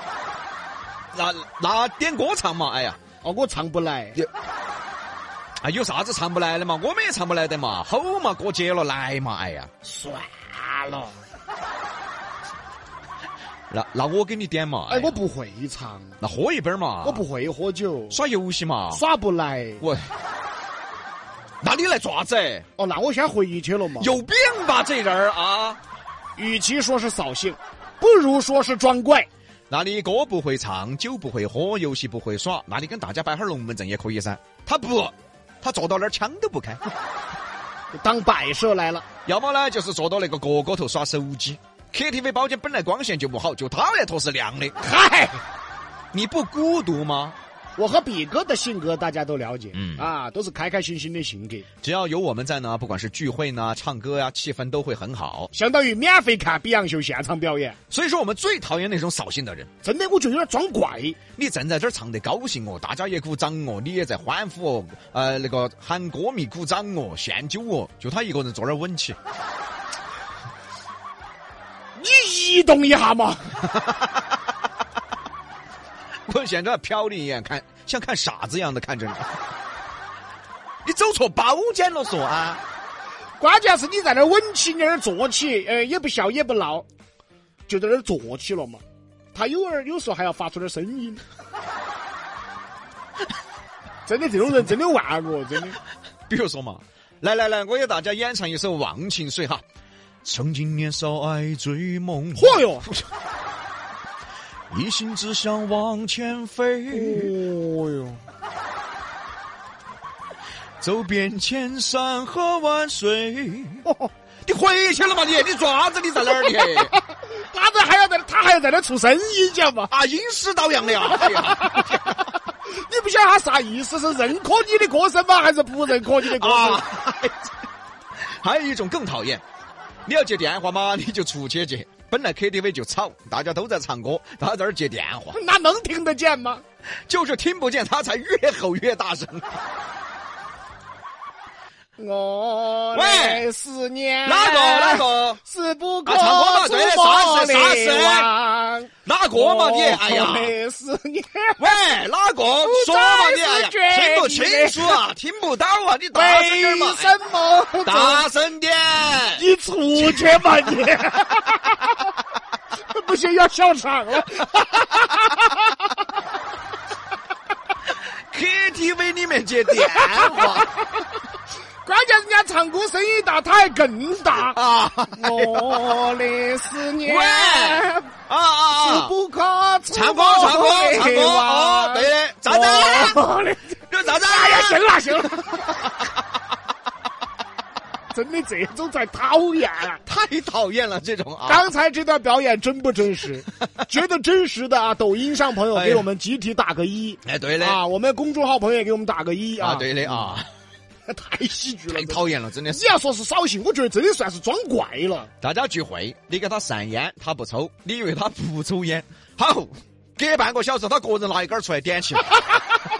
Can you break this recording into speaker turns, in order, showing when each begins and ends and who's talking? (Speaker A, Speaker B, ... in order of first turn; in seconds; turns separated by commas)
Speaker A: 1.1-3.0, Speaker B: 3.2-4.2, Speaker A: 5.6-9.7, Speaker B: 9.8-11.1, Speaker A: 13.7-15.2, Speaker B: 14.9-16.2, Speaker A: 16.2-17.2, Speaker B: 17.0-18.2, Speaker A: 18.1-19.0, Speaker B: 18.9-19.8, Speaker A: 19.8-20.1, Speaker A: 21.6-22.6, Speaker B: 22.8-24.1, Speaker A: 24.0-25.8, Speaker B: 26.4-29.3, Speaker A: 29.7-36.8, Speaker B: 37.9-39.0, Speaker A: 39.2-44.7, Speaker B: 44.8-45.4, Speaker A: 46.1-47.4, Speaker B: 47.8-51.6, Speaker A: 49.7-50.1, Speaker A: 51.8-55.5, Speaker B: 55.5-57.8, Speaker A: 57.9-59.7, Speaker B: 59.8-61.2, Speaker A: 61.4-69.2, Speaker B: 72.0-73.6, Speaker A: 73.8-74.2, Speaker A: 76.3-79.3, Speaker A: 80.8-82.6, Speaker B: 83.4-86.8, Speaker B: 87.7-88.8, Speaker B: 89.3-91.2, Speaker B: 94.0-95.8, Speaker A: 96.3-99.6, Speaker A: 100.2-102.9, Speaker B: 102.3-102.9, Speaker A: 104.7-107.3, Speaker B: 106.9-108.2, Speaker A: 110.8-113.8, Speaker B: 113.8-114.1, Speaker A: 114.5-117.0, Speaker B: 116.8-119.9, Speaker A: 119.9-122.1, Speaker B: 121.2-126.8, Speaker A: 126.3-127.5, Speaker A: 128.2-129.4, Speaker A: 130.1-135.4, Speaker B: 135.3-136.6, Speaker A: 137.1-139.6, Speaker B: 142.0-151.7, Speaker A: 142.9-143.5, Speaker A: 144.2-145.4, Speaker A: 146.1-148.3, Speaker A: 149.1-150.5, Speaker A: 151.6-157.1, Speaker B: 152.6-155.0, Speaker B: 156.1-158.2, Speaker A: 157.8-159.4, Speaker B: 159.3-161.9, Speaker A: 160.0-160.4, Speaker B: 162.9-165.9, Speaker A: 168.3-170.7, Speaker B: 169.7-171.0, Speaker B: 171.8-174.6, Speaker A: 174.4-176.1, Speaker B: 175.1-178.1, Speaker A: 177.0-179.1, Speaker B: 178.8-186.0, Speaker A: 179.9-183.2, Speaker A: 183.9-184.8, Speaker B: 188.1-190.0, Speaker A: 190.0-191.7, Speaker B: 191.4-200.3, Speaker A: 195.7-196.1, Speaker A: 197.2-197.8, Speaker A: 199.6-200.5, Speaker B: 201.1-205.3, Speaker A: 201.9-202.9, Speaker A: 205.4-212.4